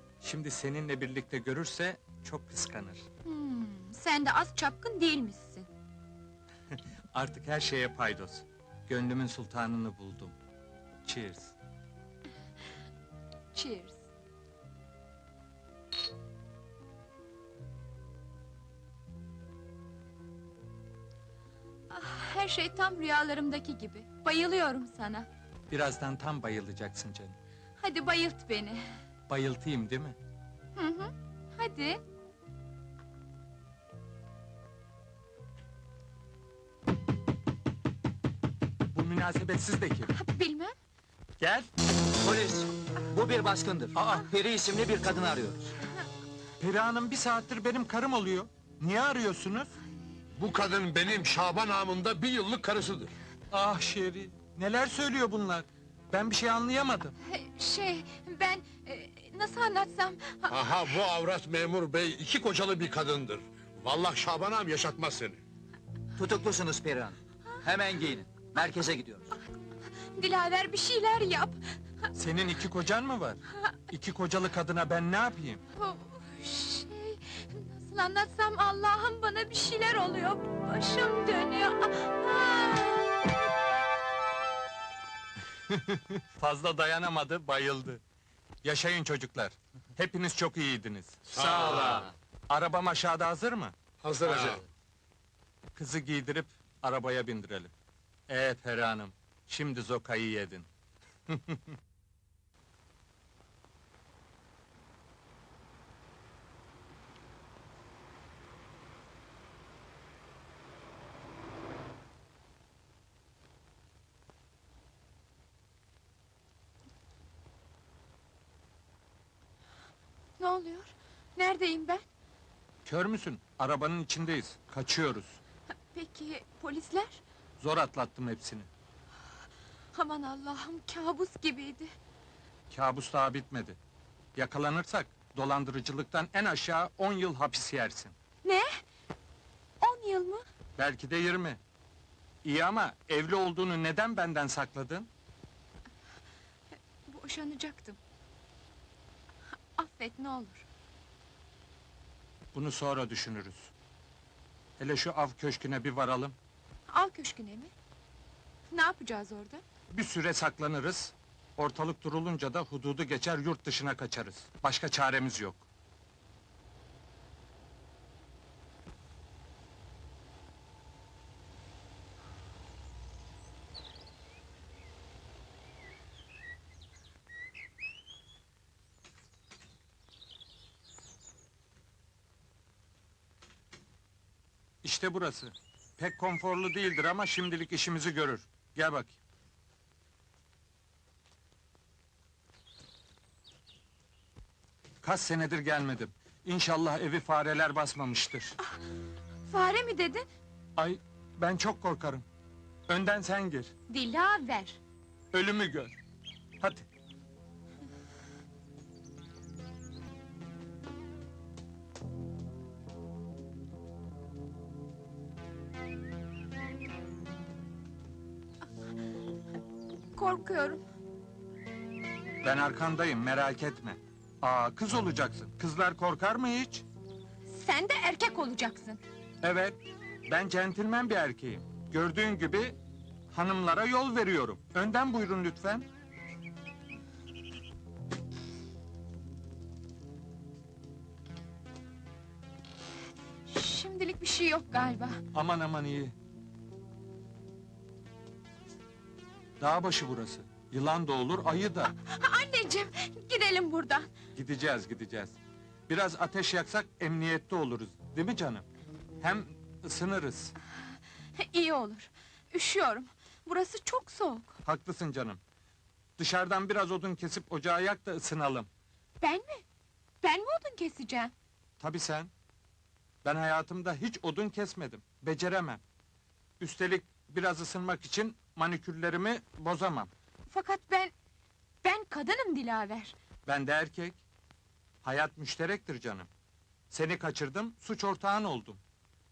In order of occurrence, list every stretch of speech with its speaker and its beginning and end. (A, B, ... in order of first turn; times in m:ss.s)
0:00.2-0:03.0 A
0:03.2-0:05.7 B
0:07.1-0:10.4 A
0:11.0-0:11.6 A
0:13.5-0:14.0 B
0:21.9-0:25.3 B
0:25.7-0:27.4 A
0:27.8-0:28.8 B
0:29.3-0:30.2 A
0:30.8-0:32.0 B
0:38.9-0:40.1 A
0:40.1-0:40.7 B
0:41.4-0:41.7 A
0:42.2-0:45.7 C
0:43.9-0:44.3 A
0:46.6-0:49.7 A
0:50.3-0:53.1 D
0:53.5-0:57.1 A
0:57.2-1:00.6 B
1:00.5-1:05.4 D
1:06.2-1:09.3 C
1:10.1-1:11.6 B
1:12.1-1:15.6 A
1:15.8-1:23.3 B
1:25.7-1:28.0 A
1:28.6-1:33.7 A
1:31.3-1:32.0 D
1:34.0-1:34.6 D
1:34.2-1:34.6 A
1:35.7-1:37.7 A
1:38.3-1:40.7 A
1:41.3-1:41.8 A
2:00.4-2:02.0 B
2:02.8-2:05.4 A
2:05.9-2:07.2 B
2:07.6-2:08.7 A
2:09.9-2:11.9 B
2:12.7-2:13.8 A
2:14.3-2:18.1 A
2:18.4-2:18.7 B
2:19.8-2:20.4 B
2:20.8-2:21.6 A
2:22.4-2:25.1 A
2:27.0-2:28.0 B
2:29.8-2:30.6 B
2:32.5-2:33.7 A
2:34.8-2:36.4 A
2:36.9-2:37.7 B
2:38.7-2:39.6 B
2:39.9-2:45.6 A
3:04.8-3:09.2 A
3:15.0-3:18.6 A
3:19.5-3:20.2 B
3:20.8-3:22.2 A
3:22.9-3:23.7 A
3:23.9-3:24.8 B
3:25.3-3:26.0 A
3:26.6-3:26.8 A
3:40.1-3:40.8 B
3:42.4-3:46.8 A
3:47.5-3:49.0 B
3:49.4-3:52.8 A
3:53.3-3:55.8 A
4:03.5-4:05.2 B
4:05.3-4:06.1 A
4:09.6-4:11.9 A
4:12.0-4:14.1 B
4:14.3-4:15.4 A
4:15.9-4:18.6 A
4:19.2-4:20.5 A
4:21.4-4:24.5 B
4:24.6-4:25.4 A
4:26.2-4:28.7 A
4:29.2-4:29.6 B
4:30.2-4:31.3 B
4:31.8-4:32.3 A
4:33.2-4:35.8 A
4:36.6-4:40.1 A
4:40.5-4:41.1 B
4:41.8-4:43.1 B
4:43.4-4:44.2 A
4:45.0-4:46.3 A
4:46.9-4:48.8 A